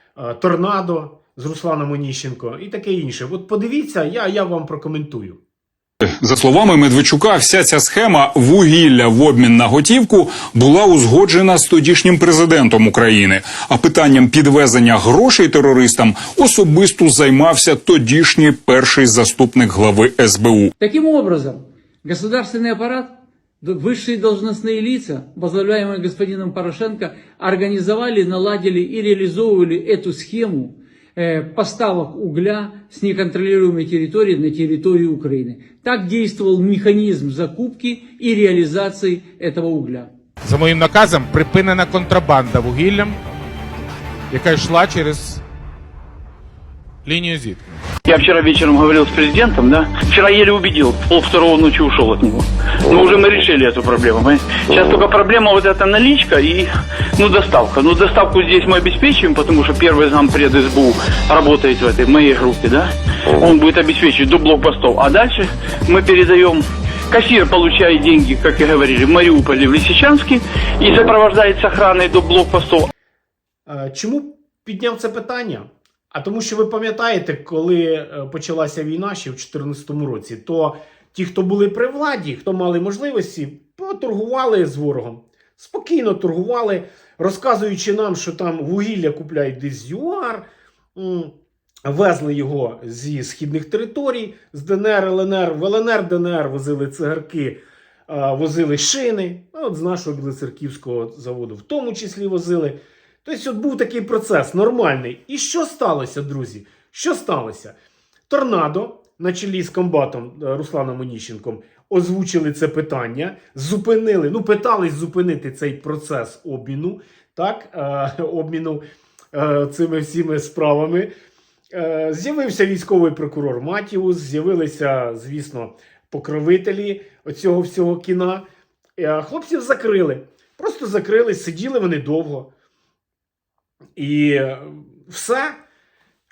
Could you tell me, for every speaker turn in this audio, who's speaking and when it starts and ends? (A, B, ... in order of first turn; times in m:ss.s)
0:00.2-0:05.4 A
0:06.2-0:20.7 B
0:20.8-0:23.1 C
0:23.6-0:40.1 C
0:40.4-0:43.2 D
0:44.3-0:45.4 D
0:47.0-0:47.6 D
0:48.1-1:12.9 E
1:13.7-1:31.3 A
1:31.8-1:47.8 A
1:48.3-1:58.8 A
1:59.3-2:01.1 A
2:01.7-2:08.4 A
2:09.0-2:12.5 A
2:14.0-2:15.6 A